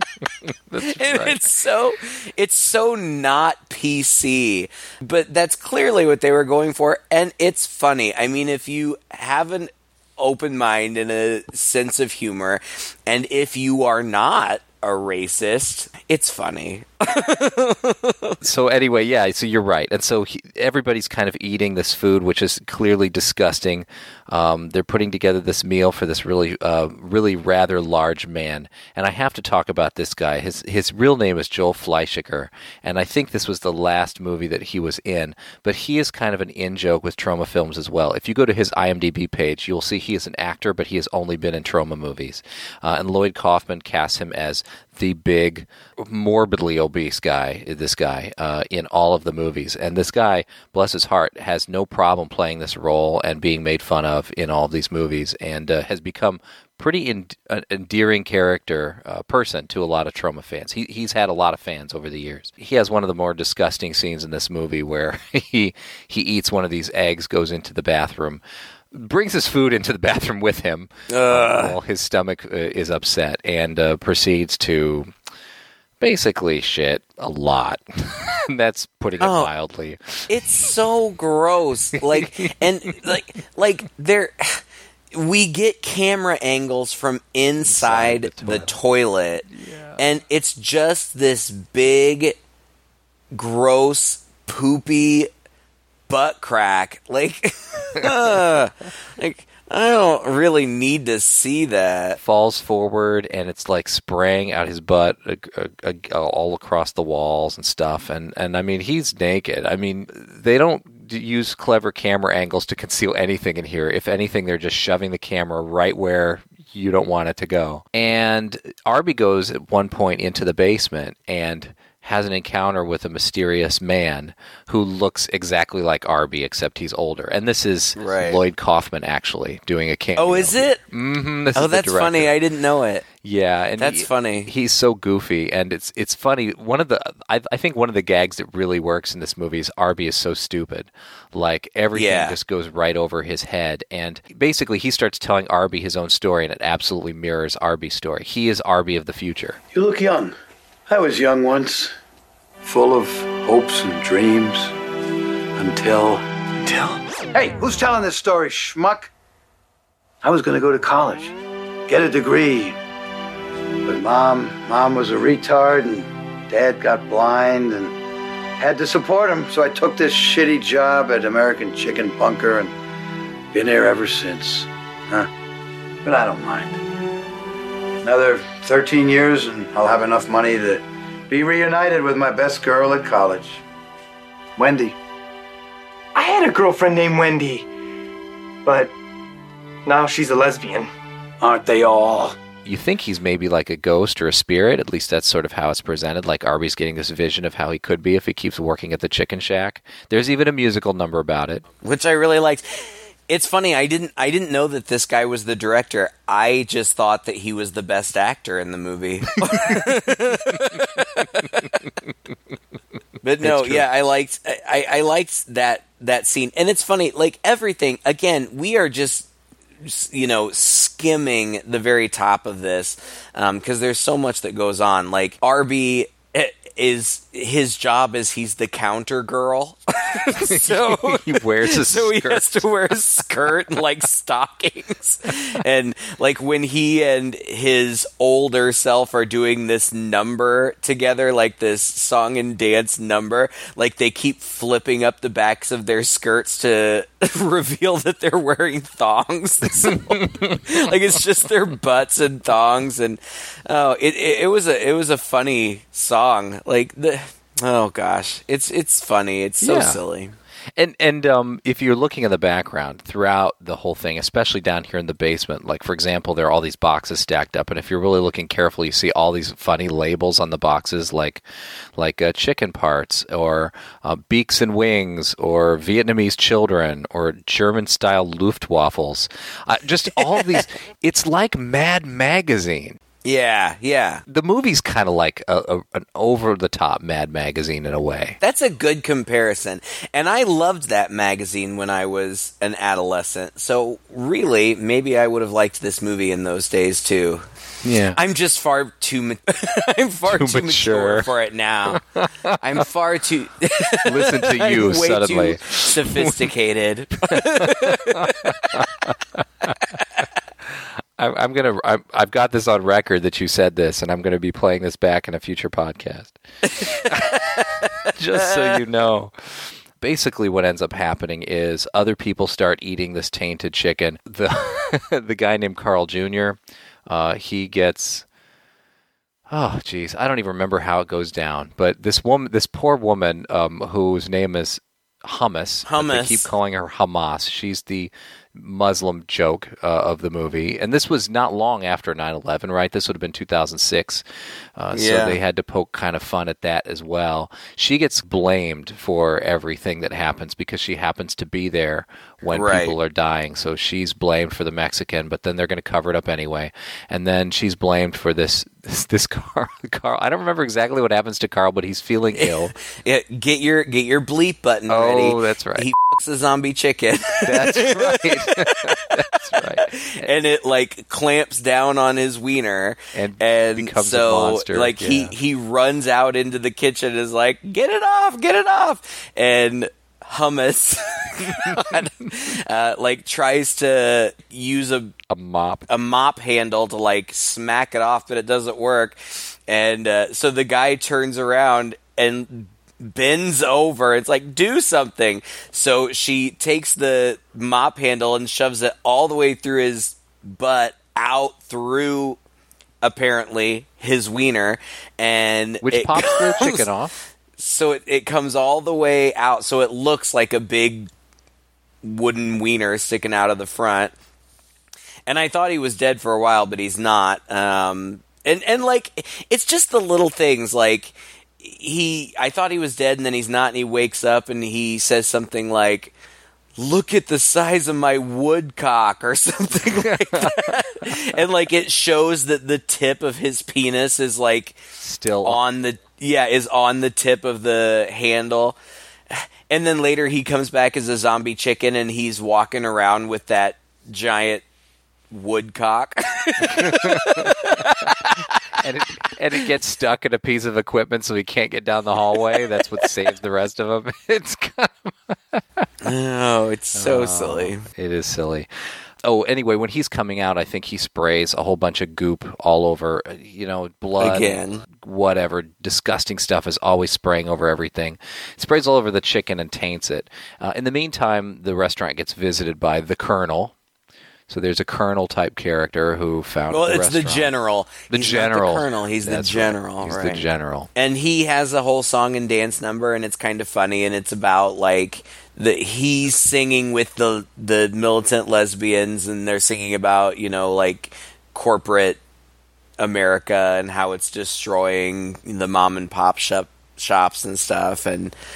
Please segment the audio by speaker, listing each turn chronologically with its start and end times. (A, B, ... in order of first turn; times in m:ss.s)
0:00.4-0:01.5 A
0:00.8-0:18.4 B
0:18.4-1:15.1 A
1:11.1-1:11.8 B
1:16.0-1:20.7 A
1:19.2-1:19.5 B
1:20.3-1:32.4 B
1:22.0-1:22.6 A
1:27.6-1:28.7 A
1:29.5-1:30.0 A
1:33.3-1:35.3 B
1:36.1-1:42.2 B
1:38.0-1:38.4 A
1:42.2-2:12.3 A
2:08.0-2:08.4 B
2:10.2-2:10.8 B
2:11.5-2:13.1 B
2:13.2-2:29.6 A
2:13.8-2:14.5 B
2:21.9-2:22.4 B
2:29.7-2:30.4 C
2:30.9-2:31.9 C
2:32.6-2:34.7 C
2:35.6-2:39.1 C
2:40.2-2:41.3 C
2:41.9-2:42.8 C
2:43.8-2:47.9 C
2:48.6-2:52.7 C
2:53.5-2:55.3 C
2:56.0-2:56.8 C
2:58.0-3:03.6 C
3:04.6-3:05.0 C
3:06.1-3:07.6 D
3:08.6-3:08.9 D
3:09.8-3:10.9 D
3:11.4-3:12.4 C
3:12.6-3:21.6 A
3:21.8-3:31.8 B
3:29.4-3:29.9 A
3:33.2-3:39.3 B
3:33.4-3:33.9 A
3:39.8-4:20.3 B
3:50.4-3:53.5 A
4:09.8-4:10.6 A
4:19.6-4:20.0 A
4:20.8-4:31.4 A
4:32.0-4:43.0 A
4:40.2-4:40.6 B
4:43.2-4:44.2 B
4:44.3-4:48.4 A
4:48.4-4:57.5 B
4:57.8-4:58.2 A
4:58.2-5:02.0 B
5:00.3-5:01.3 A
5:01.9-5:02.8 A
5:02.6-5:08.6 B
5:04.0-5:06.5 A
5:07.3-5:09.8 A
5:11.2-5:28.2 A
5:16.7-5:18.8 B
5:29.5-5:44.2 A
5:35.8-5:36.5 B
5:44.8-6:02.7 A
5:44.9-5:45.4 B
5:52.5-5:52.9 B
6:02.3-6:09.2 B
6:04.9-6:05.9 A
6:07.4-6:10.3 A
6:09.8-6:25.1 B
6:13.1-6:15.3 A
6:21.6-6:22.0 A
6:25.3-6:25.8 A
6:25.9-6:42.4 B
6:43.0-6:46.9 B
6:45.8-6:47.1 A
6:47.6-6:51.1 B
6:52.0-6:54.1 B
6:55.3-7:06.1 B
7:06.8-7:14.8 B
7:10.0-7:11.4 A
7:15.0-7:15.6 A
7:15.4-7:18.8 B
7:19.3-7:24.6 B
7:25.3-7:28.8 B
7:26.6-7:35.8 A
7:36.0-7:37.8 B
7:37.0-7:38.7 A
7:39.2-7:53.7 A
7:44.2-7:44.8 B
7:54.5-7:57.5 A
7:56.7-8:12.2 B
7:58.1-8:00.9 A
8:13.0-8:18.3 B